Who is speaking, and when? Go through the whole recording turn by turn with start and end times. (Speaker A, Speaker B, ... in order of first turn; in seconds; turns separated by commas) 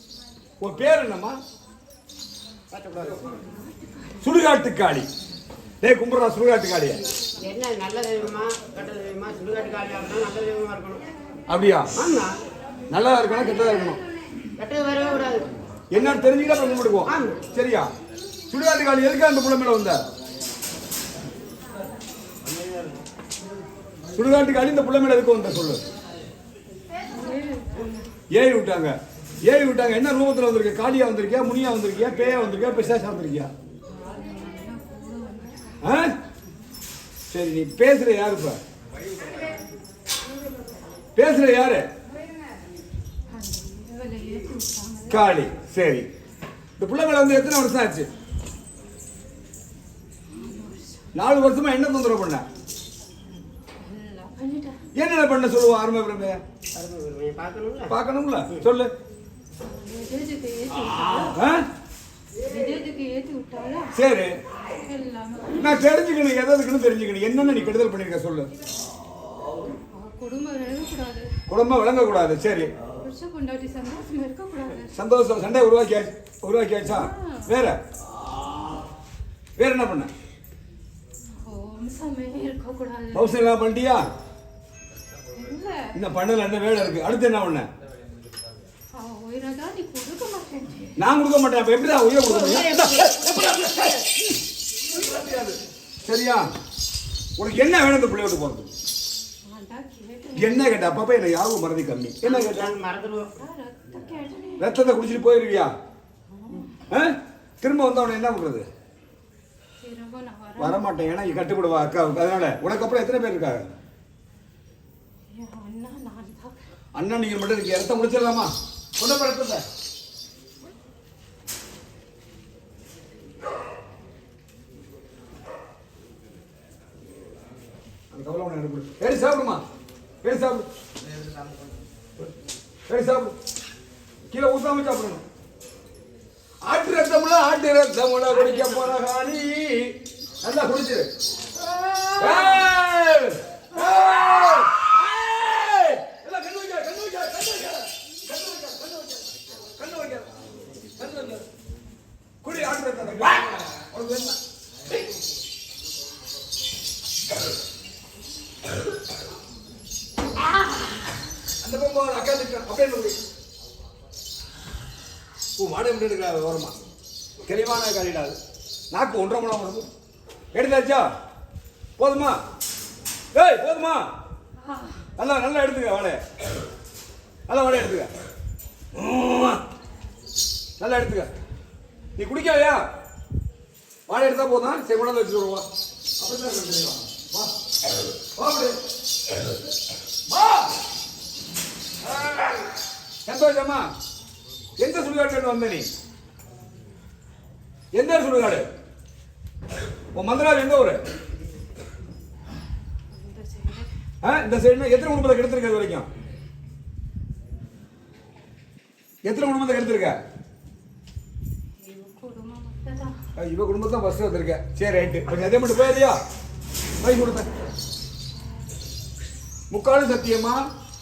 Speaker A: 0.6-1.4, Speaker B: 2.7-3.5, Speaker C: 3.2-4.2, Speaker A: 4.2-5.1, Speaker A: 5.8-7.0, Speaker B: 7.4-11.0, Speaker A: 11.5-11.9, Speaker B: 11.9-12.4, Speaker A: 12.9-14.0, Speaker B: 14.6-15.5, Speaker A: 15.9-17.9, Speaker B: 17.0-17.5, Speaker A: 18.5-20.0, Speaker A: 24.1-25.8, Speaker C: 27.1-28.1, Speaker A: 28.3-28.9, Speaker A: 29.4-33.5, Speaker C: 33.9-35.8, Speaker A: 35.8-36.1, Speaker A: 37.3-38.6, Speaker A: 41.1-41.8, Speaker C: 43.3-45.3, Speaker A: 45.1-46.1, Speaker A: 46.8-48.1, Speaker C: 50.3-51.1, Speaker A: 51.1-52.4, Speaker C: 53.8-54.8, Speaker A: 54.9-56.4, Speaker B: 56.7-57.9, Speaker A: 57.9-58.9, Speaker C: 59.6-61.4, Speaker A: 61.3-61.6, Speaker C: 62.4-63.9, Speaker A: 63.9-64.3, Speaker C: 64.7-65.8, Speaker A: 65.6-68.5, Speaker C: 69.9-71.3, Speaker A: 71.5-72.7, Speaker C: 72.8-74.9, Speaker A: 74.9-77.8, Speaker C: 76.9-77.5, Speaker A: 79.6-80.1, Speaker C: 81.4-83.4, Speaker A: 83.1-84.0, Speaker C: 85.3-85.9, Speaker A: 85.9-87.7, Speaker C: 88.9-91.0, Speaker A: 91.0-94.0, Speaker B: 92.2-94.0, Speaker A: 94.9-96.5, Speaker A: 97.4-98.7, Speaker C: 99.4-100.8, Speaker A: 100.3-102.7, Speaker B: 102.2-103.4, Speaker C: 103.0-104.8, Speaker A: 104.6-105.7, Speaker C: 106.3-106.8, Speaker A: 106.9-108.7, Speaker C: 109.8-110.8, Speaker A: 110.6-113.6, Speaker C: 115.3-116.6, Speaker A: 116.9-119.6, Speaker A: 128.1-129.6, Speaker A: 130.2-130.7, Speaker A: 132.9-133.3, Speaker A: 134.3-135.2, Speaker A: 136.6-141.1, Speaker B: 138.3-138.9, Speaker A: 142.2-150.3, Speaker A: 150.9-151.4, Speaker A: 152.4-154.4, Speaker A: 161.6-163.2, Speaker A: 165.6-166.7, Speaker A: 167.4-168.4, Speaker A: 168.9-169.9, Speaker A: 170.5-171.1, Speaker A: 172.0-172.4, Speaker A: 173.3-174.0, Speaker C: 174.6-175.1, Speaker A: 175.2-176.2, Speaker A: 177.5-178.1, Speaker A: 178.9-179.6, Speaker A: 180.8-181.3, Speaker A: 182.2-182.8, Speaker A: 184.1-185.7, Speaker A: 186.2-187.5, Speaker A: 188.3-188.8, Speaker A: 190.3-190.7, Speaker A: 192.0-192.7, Speaker A: 193.2-193.9, Speaker A: 194.8-195.9, Speaker A: 197.9-198.6, Speaker A: 200.1-201.0, Speaker C: 203.1-203.9, Speaker A: 204.2-206.1, Speaker A: 209.2-210.2, Speaker C: 211.8-213.1, Speaker A: 213.3-216.2, Speaker A: 217.0-217.5, Speaker A: 219.7-220.6